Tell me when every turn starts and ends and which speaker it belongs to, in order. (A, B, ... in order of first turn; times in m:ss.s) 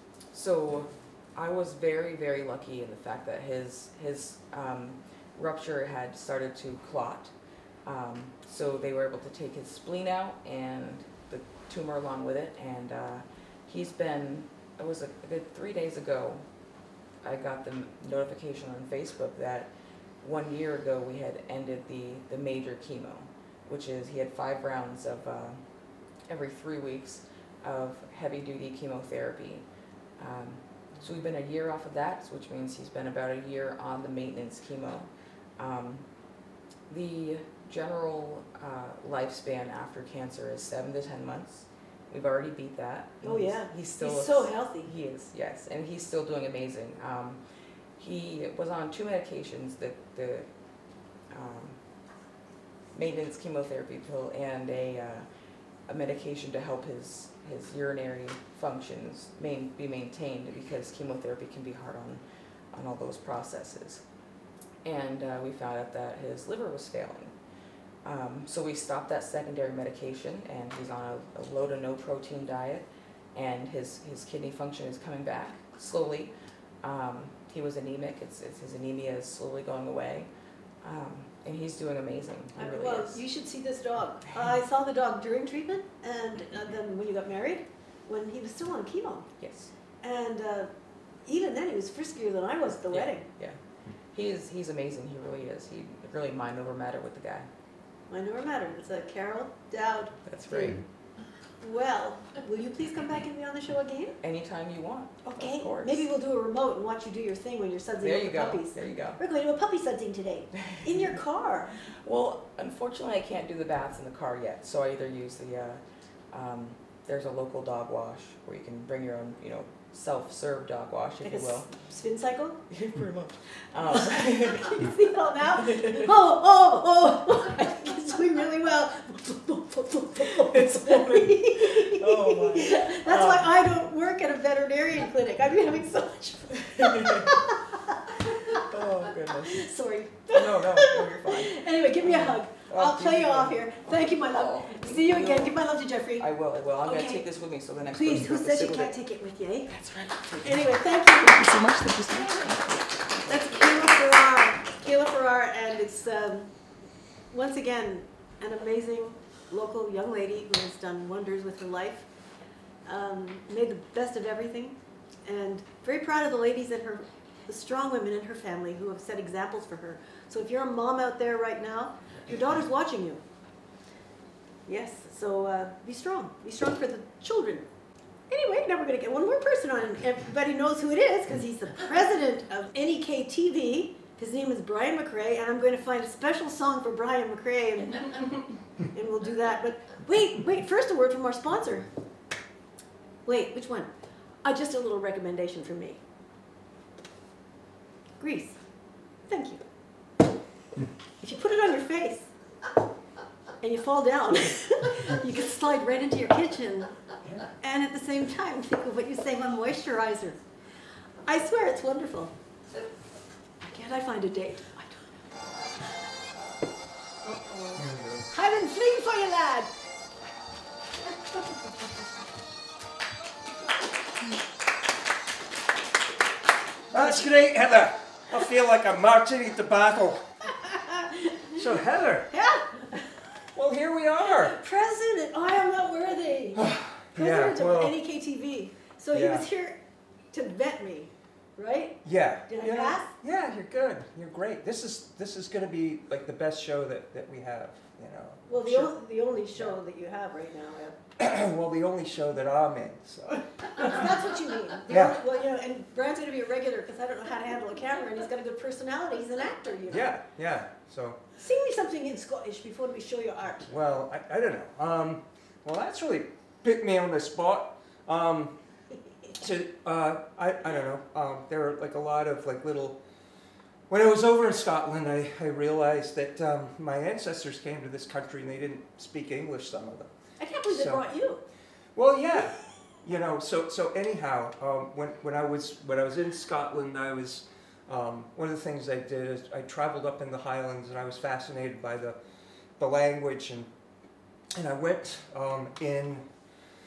0:00.3-0:07.3 A
0:07.8-0:16.4 A
0:17.2-0:19.7 A
0:20.2-0:25.6 A
0:26.3-0:29.6 A
0:30.2-0:36.0 A
0:36.9-0:47.4 A
0:43.2-0:44.9 B
0:48.0-0:50.5 A
0:51.3-0:51.8 A
0:52.9-0:55.2 A
0:55.9-1:02.2 A
1:02.7-1:04.0 A
1:04.8-1:07.3 A
1:08.0-1:20.3 A
1:20.8-1:23.2 A
1:22.6-1:29.3 B
1:29.4-1:29.7 A
1:30.0-1:30.7 B
1:31.2-1:33.2 B
1:32.9-1:33.6 A
1:34.1-1:37.5 A
1:38.1-1:40.8 B
1:40.2-1:40.8 A
1:41.6-1:44.2 B
1:44.2-1:46.1 A
1:45.2-1:51.8 B
1:48.0-1:49.2 A
1:50.6-1:50.8 A
1:51.8-2:01.7 A
2:01.2-2:02.6 B
2:02.7-2:05.0 A
2:04.0-2:18.7 B
2:05.6-2:06.1 A
2:10.4-2:13.6 A
2:16.5-2:17.4 A
2:18.3-2:19.7 A
2:19.4-2:26.3 B
2:20.3-2:25.6 A
2:26.2-2:29.0 A
2:26.8-2:27.3 B
2:27.8-2:29.8 B
2:29.7-2:33.2 A
2:30.4-2:31.6 B
2:33.3-2:36.5 B
2:37.3-2:42.1 B
2:42.8-2:53.2 B
2:54.6-2:57.7 B
2:58.3-3:11.9 B
3:13.2-3:13.9 B
3:14.4-3:16.0 B
3:18.2-3:18.6 B
3:19.2-3:19.6 B
3:21.2-3:22.3 B
3:23.6-3:26.9 B
3:27.6-3:30.4 B
3:31.2-3:32.3 B
3:33.6-3:35.2 B
3:37.7-3:38.3 C
3:38.3-3:39.7 B
3:46.9-3:50.2 C
3:50.7-3:51.6 B
3:51.5-3:52.3 C
3:52.3-3:53.1 B
3:53.5-3:54.6 C
3:54.3-3:56.6 B
3:56.5-3:58.0 C
3:57.1-3:59.8 B
3:59.1-3:59.4 C
4:00.3-4:03.1 B
4:02.0-4:08.9 C
4:08.5-4:11.0 B
4:11.2-4:13.9 C
4:13.8-4:20.1 B
4:14.9-4:15.2 C
4:19.9-4:21.2 C
4:21.4-4:23.7 B
4:23.6-4:28.5 C
4:29.4-4:33.0 C
4:33.9-4:40.1 C
4:40.4-4:41.4 B
4:40.7-4:41.0 C
4:42.0-4:52.2 C
4:52.8-4:53.7 C
4:54.6-4:56.2 C